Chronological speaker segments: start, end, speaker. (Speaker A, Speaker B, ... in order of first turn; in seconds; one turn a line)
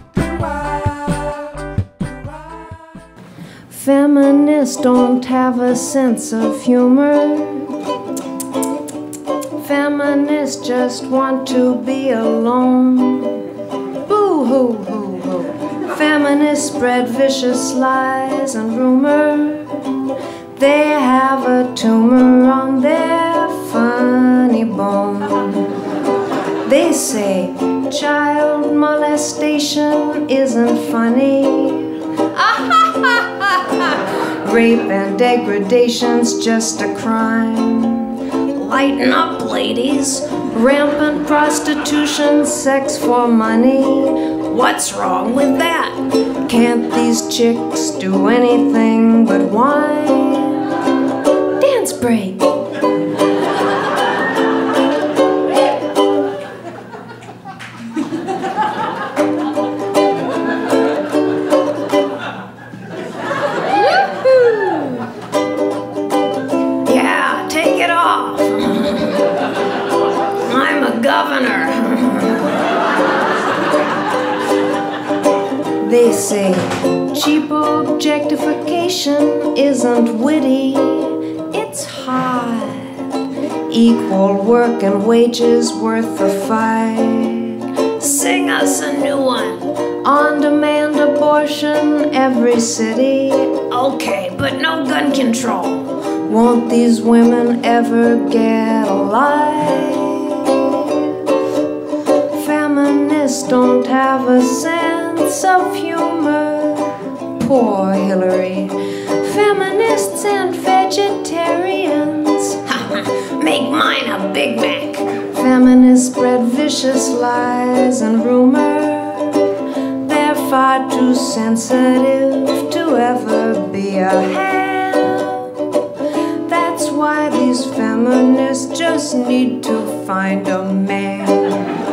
Speaker A: 0.5-1.5
Speaker A: 3.7-7.8
Speaker A: 9.5-25.8
Speaker A: 26.6-50.7
Speaker A: 51.5-52.5
Speaker A: 64.0-65.1
Speaker A: 66.8-69.3
Speaker A: 70.4-72.5
Speaker A: 75.8-101.5
Speaker A: 102.2-131.7